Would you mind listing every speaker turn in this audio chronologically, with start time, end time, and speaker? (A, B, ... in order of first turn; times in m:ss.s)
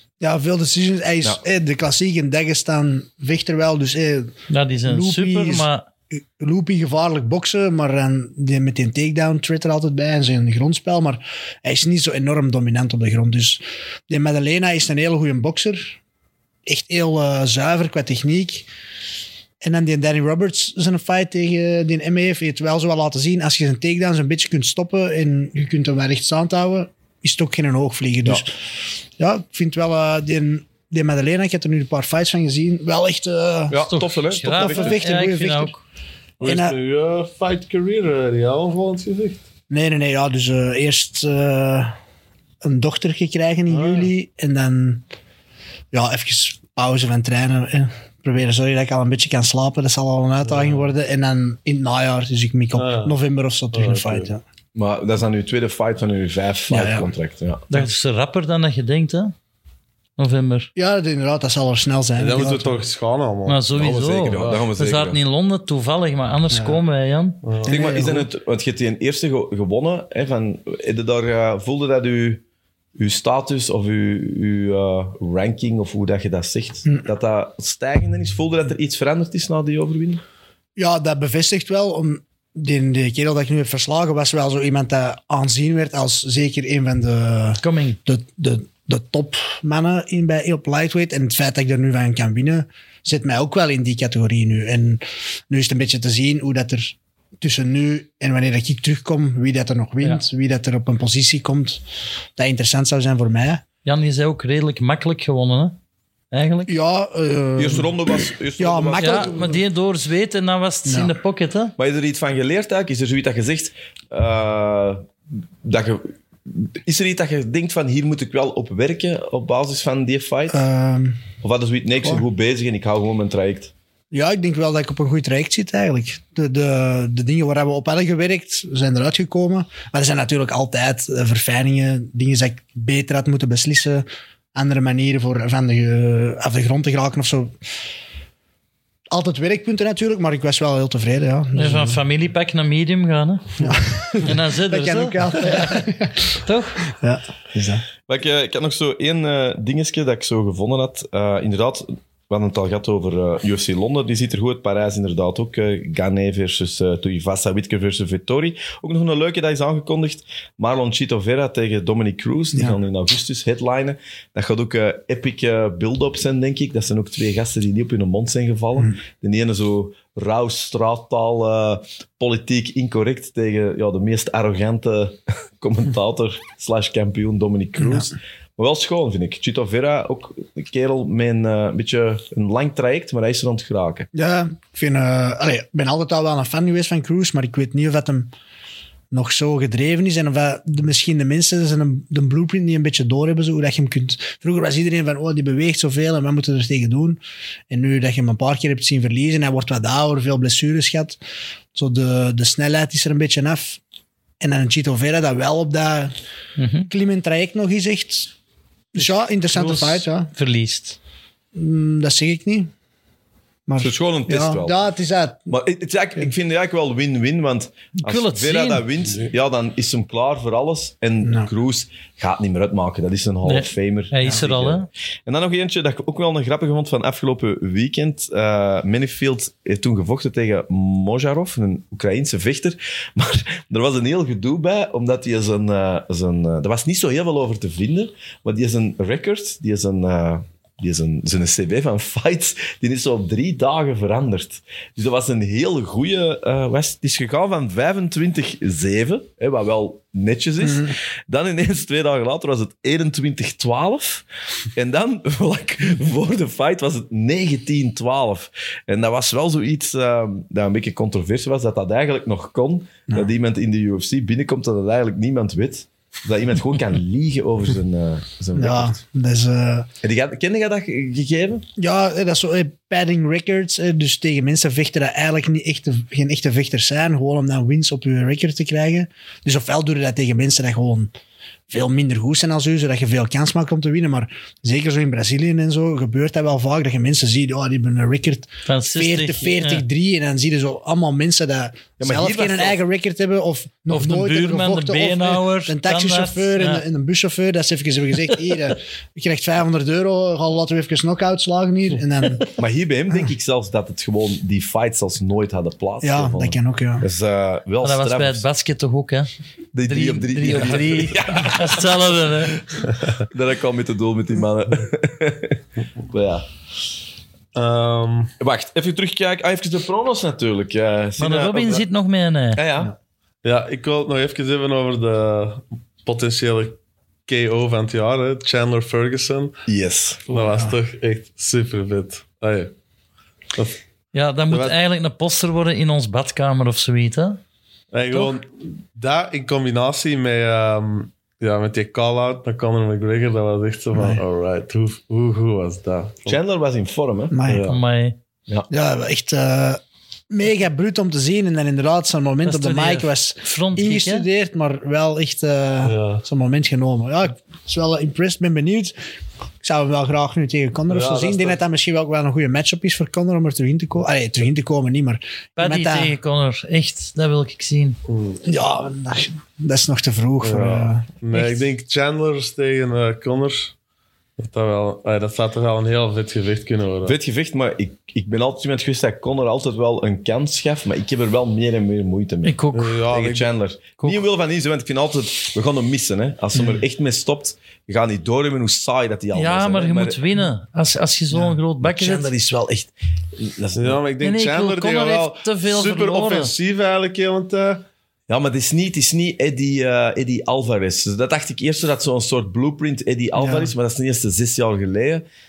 0:00.2-0:04.3 A
0:04.5-0:05.8 B
0:04.8-0:16.0 A
0:16.7-0:18.7 A
0:19.6-0:28.5 A
0:29.2-0:33.8 A
0:33.7-0:35.0 C
0:33.8-0:35.8 B
0:34.4-0:35.7 A
0:36.4-0:39.4 D
0:36.4-0:36.8 A
0:39.7-0:42.0 A
0:42.6-0:45.0 A
0:43.7-0:44.1 D
0:45.9-0:54.4 A
0:50.4-0:50.9 D
0:52.8-0:53.2 D
0:53.7-0:54.3 D
0:54.8-0:57.7 C
0:56.7-0:57.1 A
0:57.7-0:59.3 B
1:00.2-1:00.7 B
1:00.8-1:02.8 A
1:02.2-1:03.6 D
1:03.5-1:07.4 B
1:03.8-1:05.2 C
1:06.5-1:06.8 A
1:07.4-1:07.9 D
1:07.6-1:08.3 A
1:07.7-1:12.4 C
1:13.0-1:20.2 C
1:20.8-1:41.8 A
1:27.6-1:28.0 B
1:42.4-1:43.6 A
1:43.8-1:45.8 B
1:46.3-1:46.8 B
1:46.7-1:49.6 A
1:47.6-1:49.6 C
1:49.0-1:51.7 B
1:50.9-1:51.1 A
1:51.8-1:55.1 C
1:55.6-2:00.6 C
2:00.5-2:01.2 A
2:01.4-2:03.7 C
2:04.1-2:17.6 A
2:19.1-2:22.0 A
2:21.6-2:23.5 B
2:23.6-2:26.4 A
2:24.2-2:25.8 B
2:26.4-2:26.8 B
2:27.0-2:27.9 A
2:28.1-3:04.1 C
2:57.8-2:58.1 A
3:04.1-3:08.3 A
3:09.1-3:21.2 A
3:21.7-3:23.8 A
3:24.4-3:26.1 A
3:26.6-3:26.9 B
3:26.9-3:28.3 A
3:28.9-3:30.3 A
3:29.0-3:31.0 B
3:31.5-3:32.7 A
3:33.7-3:35.5 A
3:33.8-3:34.8 C
3:35.5-4:14.2 C
3:38.0-3:38.9 B
3:39.0-3:39.3 D
3:41.2-3:41.5 A
3:43.4-3:44.9 B
4:10.6-4:10.9 A
4:14.8-4:29.0 C
4:28.6-4:29.9 A
4:30.0-4:31.7 C
4:31.8-4:41.1 A
4:41.7-5:02.6 A
4:48.6-4:49.8 B
4:52.0-4:52.8 C
4:53.9-4:56.8 B
5:02.5-5:08.5 C
5:06.0-5:07.1 A
5:07.8-5:09.3 B
5:09.7-5:12.0 C
5:09.9-5:12.6 B
5:12.7-5:16.5 C
5:17.5-5:18.3 D
5:18.4-5:21.8 C
5:21.2-5:22.6 B
5:22.6-5:22.9 C
5:23.4-5:29.5 D
5:29.7-5:30.2 C
5:30.3-5:32.7 D
5:30.3-5:30.8 A
5:34.1-5:37.4 B
5:34.5-5:34.8 D
5:37.9-5:46.4 D
5:38.1-5:38.4 B
5:44.0-5:44.2 A
5:46.3-5:47.4 C
5:47.3-5:47.7 A
5:47.5-5:47.8 D
5:47.6-5:48.2 B
5:48.7-5:59.0 A
5:52.4-5:54.3 B
5:55.8-5:56.2 D
5:59.6-6:06.2 A
6:00.9-6:01.6 D
6:05.6-6:08.0 B
6:08.1-6:08.4 D
6:08.4-6:11.1 A
6:10.4-6:13.7 D
6:11.3-6:11.6 B
6:14.4-6:17.2 D
6:17.0-6:22.6 C
6:22.4-6:23.0 B
6:22.7-6:23.5 D
6:23.1-6:30.2 C
6:29.3-6:32.3 B
6:31.3-6:31.6 A
6:31.8-6:34.0 C
6:33.8-6:37.9 D
6:34.2-6:36.5 B
6:38.3-6:45.2 C
6:43.4-6:43.7 A